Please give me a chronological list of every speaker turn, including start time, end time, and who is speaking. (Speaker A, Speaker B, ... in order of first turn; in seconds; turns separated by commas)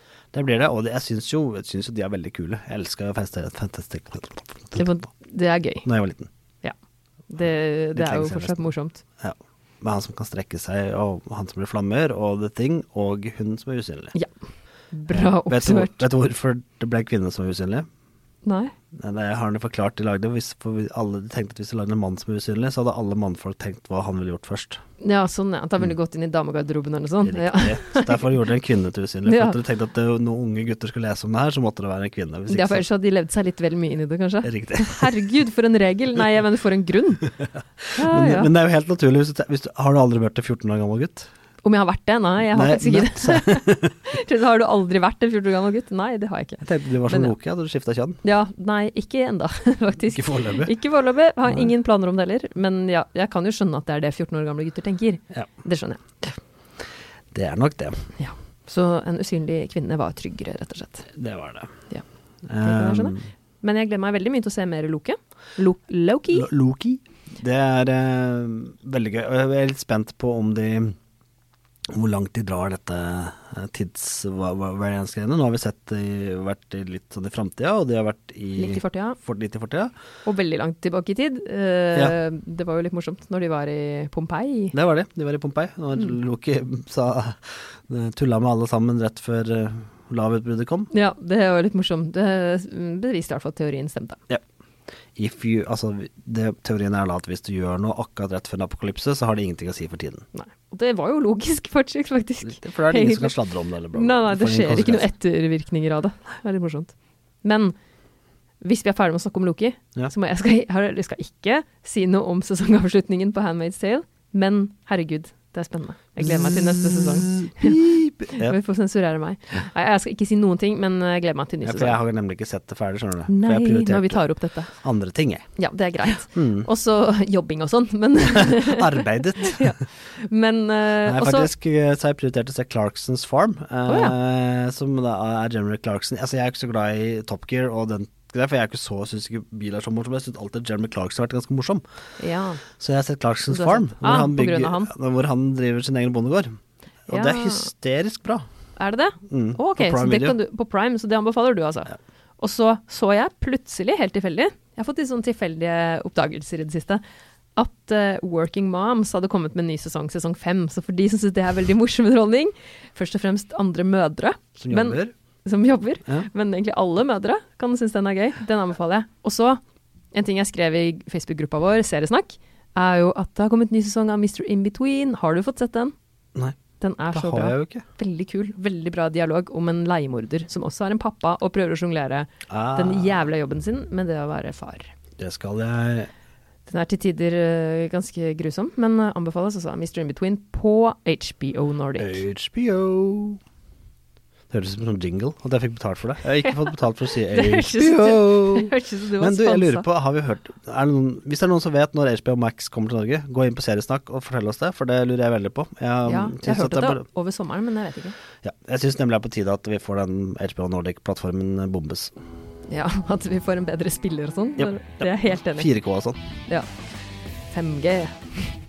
Speaker A: 0.3-4.9, Speaker B: 4.8-5.9, Speaker A: 5.8-6.3, Speaker B: 7.3-9.0, Speaker A: 8.0-14.2, Speaker B: 14.9-16.1, Speaker A: 15.1-17.9, Speaker B: 18.4-18.7, Speaker A: 19.0-24.8, Speaker B: 25.0-28.3, Speaker A: 27.2-32.9, Speaker B: 29.3-29.6, Speaker B: 32.5-37.4, Speaker A: 34.4-35.3, Speaker B: 37.9-38.5, Speaker A: 38.0-41.3, Speaker B: 41.6-47.3, Speaker A: 42.5-43.9, Speaker A: 46.6-48.2, Speaker B: 48.2-56.3, Speaker A: 50.1-50.7, Speaker A: 57.3-58.1, Speaker B: 58.2-61.1, Speaker A: 61.1-61.7, Speaker A: 62.5-63.3, Speaker B: 62.6-66.5, Speaker A: 66.3-71.0, Speaker A: 71.9-79.9, Speaker B: 78.6-79.2, Speaker B: 80.2-84.7, Speaker A: 84.7-90.9, Speaker B: 90.9-94.2, Speaker A: 95.2-100.3, Speaker B: 100.3-103.4, Speaker A: 102.4-105.1, Speaker B: 103.9-107.8, Speaker B: 108.6-122.0, Speaker A: 116.2-118.6, Speaker A: 121.6-125.5, Speaker B: 123.3-124.7, Speaker B: 125.6-131.5, Speaker A: 126.3-126.7, Speaker A: 128.3-129.8, Speaker A: 131.0-141.8, Speaker B: 133.9-134.2, Speaker B: 142.2-142.6, Speaker A: 142.8-148.4, Speaker B: 143.5-144.9, Speaker B: 147.1-147.7, Speaker B: 148.8-157.0, Speaker A: 149.3-150.4, Speaker B: 157.6-169.6, Speaker A: 164.6-165.1, Speaker B: 170.1-175.9, Speaker B: 176.8-184.9, Speaker A: 177.1-177.8, Speaker A: 182.5-183.2, Speaker A: 185.2-186.1, Speaker B: 186.7-192.2, Speaker A: 192.0-193.4, Speaker A: 194.5-207.1, Speaker B: 197.3-199.9, Speaker B: 206.1-208.2, Speaker A: 208.4-212.1, Speaker B: 212.7-215.7, Speaker A: 214.6-216.2, Speaker B: 217.5-218.5